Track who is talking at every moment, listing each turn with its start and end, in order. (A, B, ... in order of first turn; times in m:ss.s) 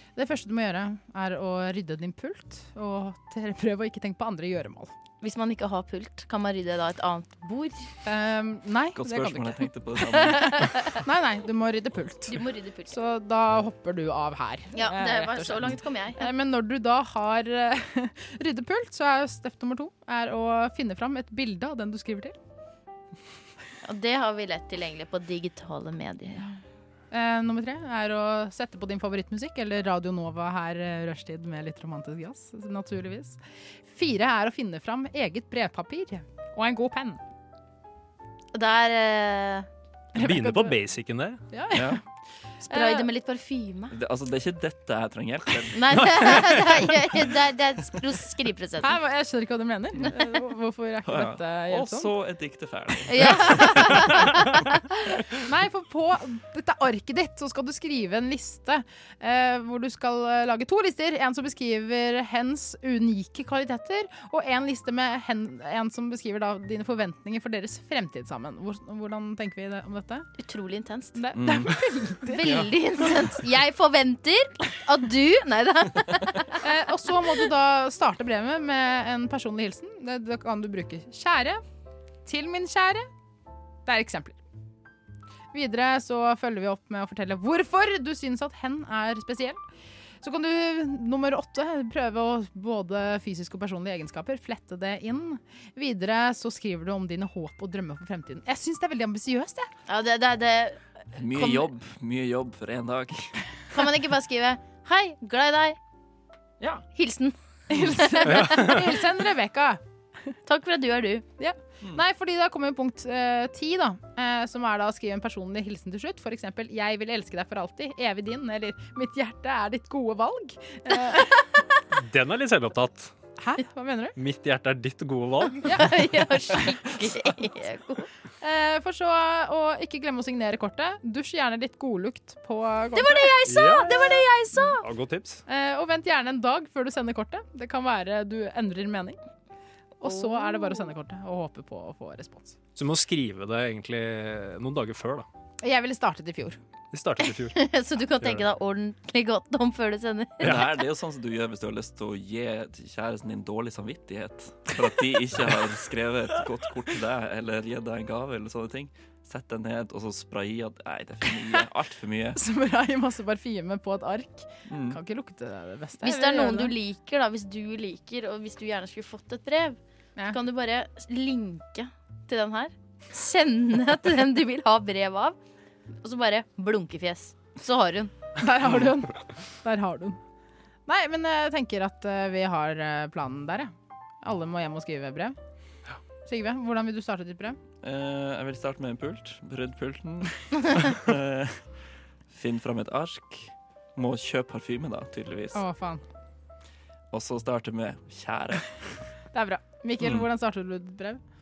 0:00.2-0:04.9 A
0:05.2-0:07.9 B
0:08.0-0:22.4 A
0:09.0-0:10.8 C
0:10.3-0:11.0 B
0:12.3-0:13.0 B
0:14.8-0:16.3 B
0:23.8-0:26.6 B
0:27.1-0:37.2 A
0:38.5-0:39.7 B
0:40.2-0:40.8 A
0:40.2-0:41.4 D
0:41.5-0:42.0 A
0:41.7-0:42.0 C
0:42.6-0:43.1 A
0:42.7-0:43.9 B
0:43.9-0:46.4 C
0:45.7-0:49.0 B
0:48.8-0:52.1 A
0:51.0-0:54.2 C
0:53.1-0:54.8 B
0:55.3-1:10.3 A
1:10.4-1:11.2 B
1:11.2-1:12.7 A
1:11.4-1:11.8 C
1:12.3-1:16.6 B
1:12.4-1:12.7 C
1:16.6-1:21.6 A
1:22.3-1:23.1 A
1:23.9-1:24.4 A
1:25.5-1:29.6 A
1:30.2-1:39.7 A
1:39.9-1:41.7 B
1:41.2-1:43.4 C
1:43.7-1:45.8 B
1:46.9-1:48.9 B
1:47.7-1:49.8 A
1:48.3-1:48.8 D
1:50.5-1:51.3 B
1:51.4-2:01.5 A
2:01.9-2:03.1 D
2:03.4-2:04.2 A
2:04.2-2:05.8 D
2:05.6-2:08.1 B
2:05.6-2:06.0 A
2:08.4-2:13.4 A
2:12.9-2:14.9 B
2:13.5-2:15.4 D
2:15.5-2:19.2 A
2:20.0-2:22.6 A
2:20.0-2:20.8 B
2:22.8-2:25.3 D
2:25.6-2:26.6 A
2:26.9-2:27.6 D
2:27.2-2:30.7 B
2:28.2-2:28.5 D
2:30.4-2:42.4 C
2:42.4-2:46.7 A
2:44.7-2:45.0 C
2:46.0-2:49.8 B
2:50.3-2:55.4 B
2:56.0-2:58.1 B
2:58.4-3:00.2 A
3:00.9-3:05.4 A
3:06.3-3:07.6 A
3:07.8-3:11.6 C
3:12.3-3:15.6 C
3:15.5-3:16.0 A
3:17.1-3:18.8 C
3:19.3-3:21.2 A
3:20.0-3:20.3 C